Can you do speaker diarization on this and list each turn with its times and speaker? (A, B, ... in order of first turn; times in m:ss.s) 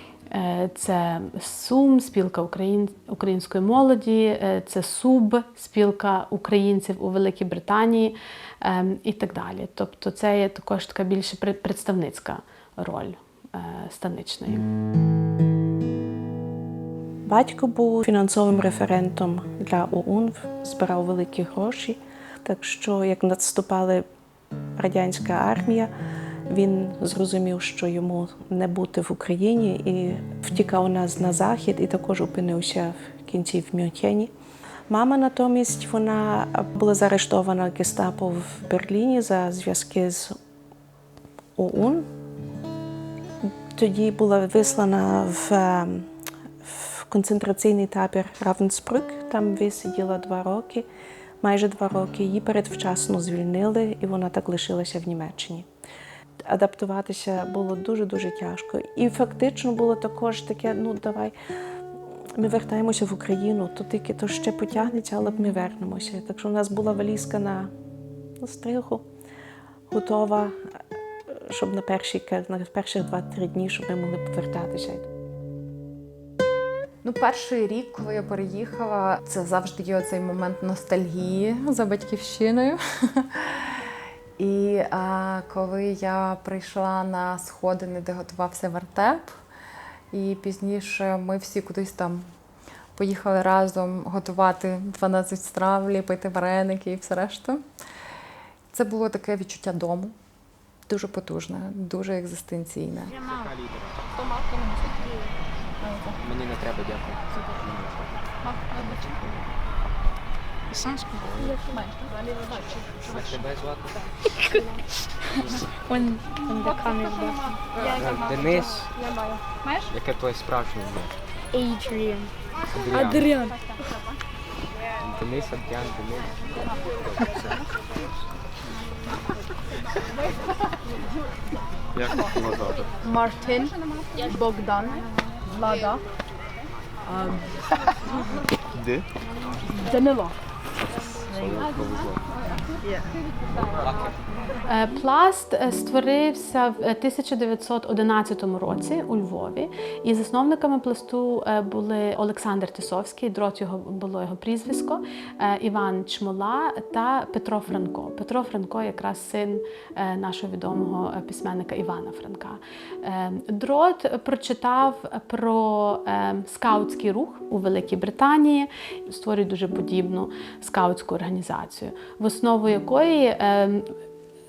0:00.3-0:14.6 A
0:17.3-0:24.0 B
0:24.8-0:25.9 B
0:26.5-0:34.3 B
0:34.9-0:40.3 B
0:41.6-0:42.1 B
0:43.4-0:46.1 B
0:46.6-0:50.8 B
0:51.4-0:55.6 B
0:56.4-1:01.3 B
1:02.4-1:07.7 B
1:08.4-1:09.0 B
1:09.9-1:10.6 B
1:11.3-1:15.1 B
1:17.0-1:23.2 C
1:24.4-1:29.3 C
1:30.1-1:32.2 C
1:33.0-1:37.6 C
1:38.7-1:40.1 C
1:40.9-1:43.1 C
1:43.3-1:43.8 D
1:44.3-1:44.9 E
1:46.2-1:48.2 D
1:50.8-1:51.6 F
1:51.2-1:51.6 D
1:53.0-1:54.0 D
1:54.5-1:54.8 F
1:55.9-1:58.9 F
1:57.8-1:58.9 D
1:59.9-2:01.2 D
2:01.5-2:02.3 F
2:02.7-2:03.4 D
2:02.9-2:03.6 F
2:05.0-2:07.5 D
2:12.0-2:12.8 D
2:13.0-2:16.0 E
2:19.9-2:20.3 E
2:21.3-2:22.2 D
2:24.6-2:53.9 A